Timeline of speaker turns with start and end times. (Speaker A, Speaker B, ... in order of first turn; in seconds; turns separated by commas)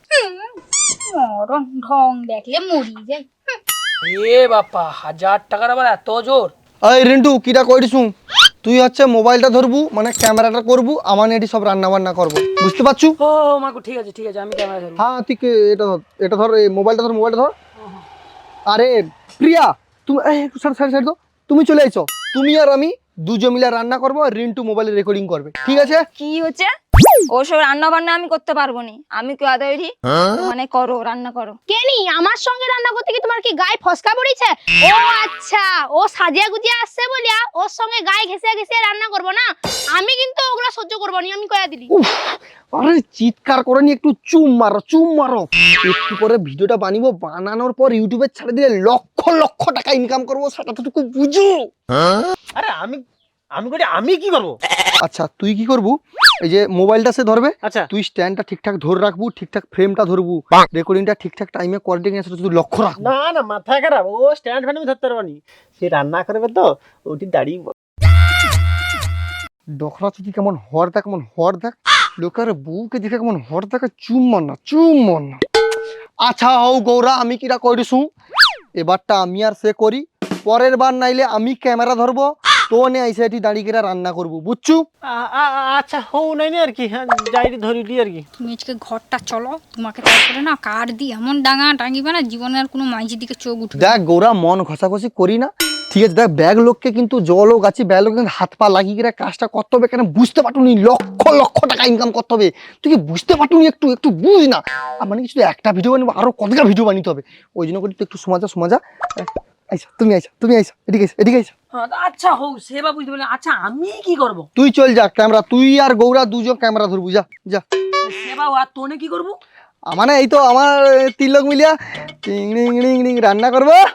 Speaker A: 0.1-3.6, Speaker B: 4.0-6.5, Speaker C: 6.8-8.1, Speaker C: 8.6-13.2, Speaker B: 13.2-15.0, Speaker C: 15.0-17.5, Speaker C: 18.7-26.1, Speaker D: 26.2-26.7, Speaker D: 27.3-31.6, Speaker E: 31.7-41.9, Speaker C: 41.9-51.7, Speaker F: 52.5-53.0, Speaker F: 53.6-54.6, Speaker C: 55.0-63.0, Speaker F: 57.6-57.9, Speaker F: 63.0-67.7, Speaker C: 69.8-75.4, Speaker C: 76.2-78.1, Speaker C: 78.8-84.9, Speaker F: 85.1-88.3, Speaker A: 88.4-94.0, Speaker C: 93.8-111.5, Speaker B: 111.8-114.5, Speaker C: 114.6-117.6, Speaker B: 118.0-119.4, Speaker C: 119.9-123.8